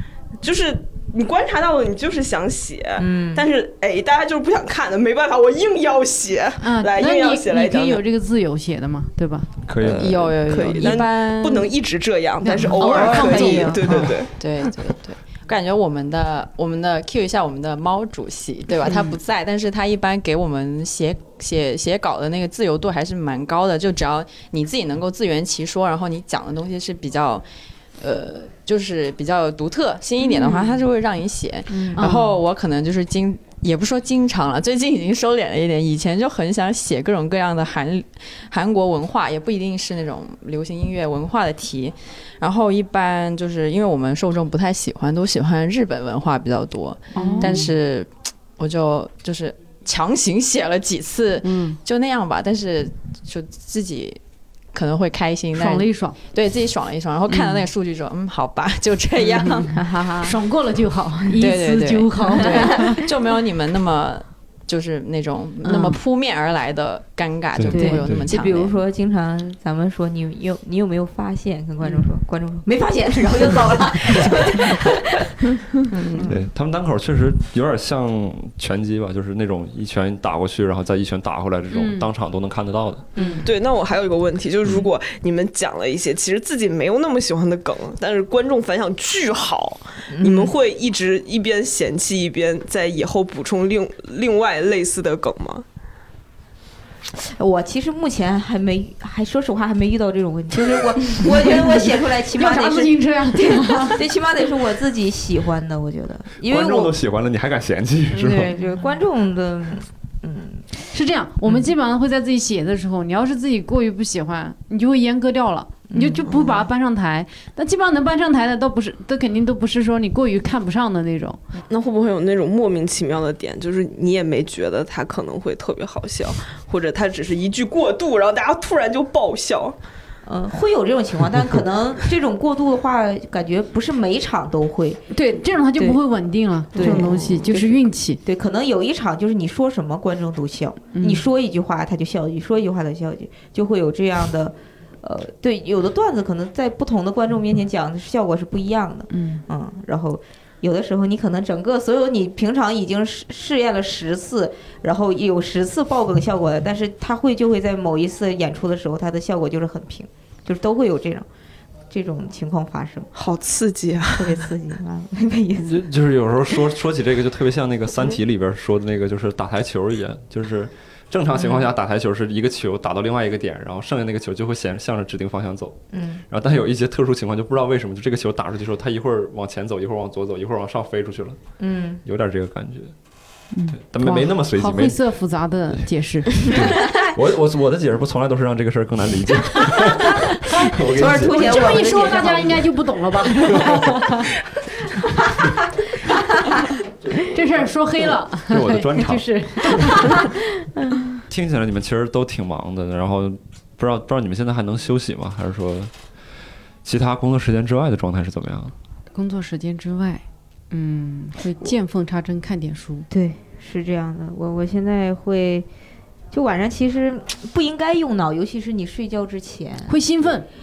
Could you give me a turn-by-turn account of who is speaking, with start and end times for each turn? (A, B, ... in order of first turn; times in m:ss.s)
0:00.4-0:08.0 A
0:03.0-0:03.5 B
0:06.6-0:09.5 C
0:09.7-0:10.2 D
0:09.8-0:14.7 A
0:10.0-0:11.7 E
0:12.4-0:14.0 B
0:12.4-0:14.1 C
0:13.0-0:13.4 E
0:14.4-0:27.4 E
0:28.0-0:54.2 E
0:30.3-0:30.7 B
0:31.7-0:32.2 B
0:32.0-0:32.3 C
0:47.1-0:47.7 C
0:47.1-0:47.6 B
0:51.4-0:51.8 C
0:54.7-0:59.8 E
0:55.5-0:56.2 C
0:57.3-0:57.7 C
0:59.4-1:03.0 C
0:59.7-1:00.4 B
1:01.4-1:08.8 E
1:02.4-1:03.0 B
1:05.6-1:06.0 C
1:07.5-1:08.3 D
1:07.7-1:15.3 B
1:15.9-1:16.3 E
1:16.1-1:16.4 B
1:16.2-1:23.1 D
1:21.7-1:22.1 C
1:23.2-1:23.5 B
1:23.4-1:35.6 A
1:30.1-1:30.5 B
1:37.2-1:46.9 B
1:42.3-1:44.0 C
1:46.4-1:48.5 D
1:48.1-1:50.7 B
1:50.9-2:01.4 C
1:55.9-1:56.7 B
2:01.7-2:09.8 A
2:10.2-2:15.0 B
2:15.1-2:18.2 C
2:16.7-2:41.3 B
2:20.9-2:21.2 C
2:29.1-2:29.4 C
2:41.9-2:43.1 B
2:43.1-2:44.5 A
2:44.1-2:45.8 B
2:45.6-2:55.8 D
2:55.9-2:56.2 B
2:56.3-3:01.4 D
3:01.6-3:02.0 B
3:02.0-3:02.9 D
3:03.5-3:06.6 C
3:03.7-3:05.0 D
3:06.4-3:11.8 D
3:06.6-3:07.0 B
3:10.4-3:14.3 C
3:10.8-3:12.7 B
3:15.1-3:16.5 B
3:17.3-3:20.3 C
3:18.5-3:20.0 D
3:21.3-3:25.9 D
3:26.8-3:28.7 D
3:29.1-3:33.1 C
3:33.1-3:35.7 B
3:36.3-3:40.0 B
3:39.9-3:40.5 C